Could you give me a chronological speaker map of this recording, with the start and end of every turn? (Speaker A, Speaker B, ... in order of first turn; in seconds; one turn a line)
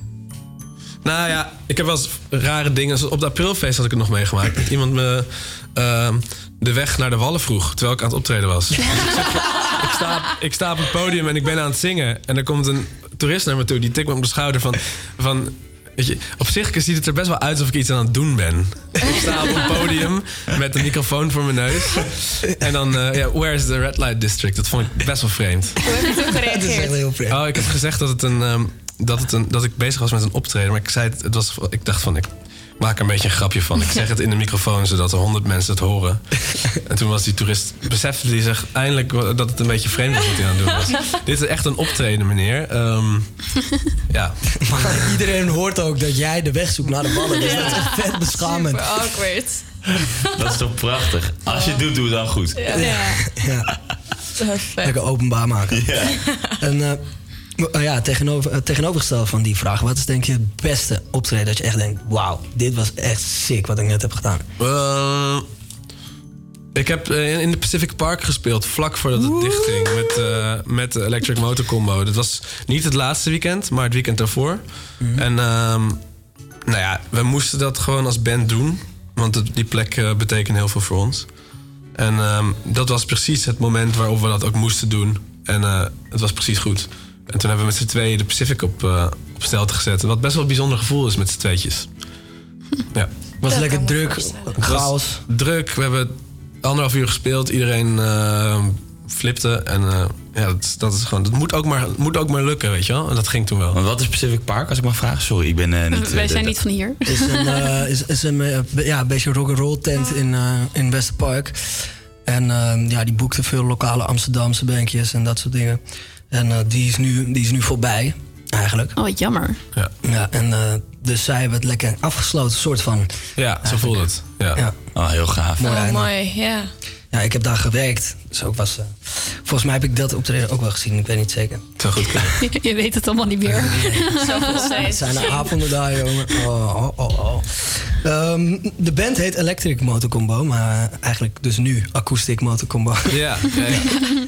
Speaker A: 1.0-25.8
Speaker B: 25.8-27.0
Speaker C: 26.0-27.6
Speaker A: 27.3-36.2
Speaker A: 36.9-43.3
Speaker A: 44.1-45.0
Speaker C: 44.6-48.9
Speaker B: 47.4-49.6
Speaker D: 50.3-52.9
Speaker B: 51.5-51.9
Speaker B: 52.6-53.2
Speaker C: 52.7-53.7
Speaker B: 54.4-55.0
Speaker C: 54.8-55.9
Speaker D: 55.7-56.1
Speaker C: 56.6-57.0
Speaker C: 57.6-64.4
Speaker A: 64.6-65.5
Speaker A: 66.8-76.0
Speaker C: 69.4-70.0
Speaker A: 76.7-81.3
Speaker A: 82.0-91.9
Speaker C: 93.4-95.2
Speaker B: 93.5-94.5
Speaker A: 94.6-103.8
Speaker D: 103.7-106.6
Speaker E: 105.9-107.7
Speaker C: 107.1-119.0
Speaker E: 119.0-119.6
Speaker C: 120.0-123.1
Speaker A: 123.4-124.6
Speaker C: 123.7-124.0
Speaker D: 125.0-125.7
Speaker C: 125.6-126.1
Speaker B: 125.6-126.7
Speaker C: 127.1-132.3
Speaker A: 131.8-132.4
Speaker E: 132.4-135.0
Speaker C: 133.5-143.5
Speaker B: 134.2-135.5
Speaker A: 143.1-143.9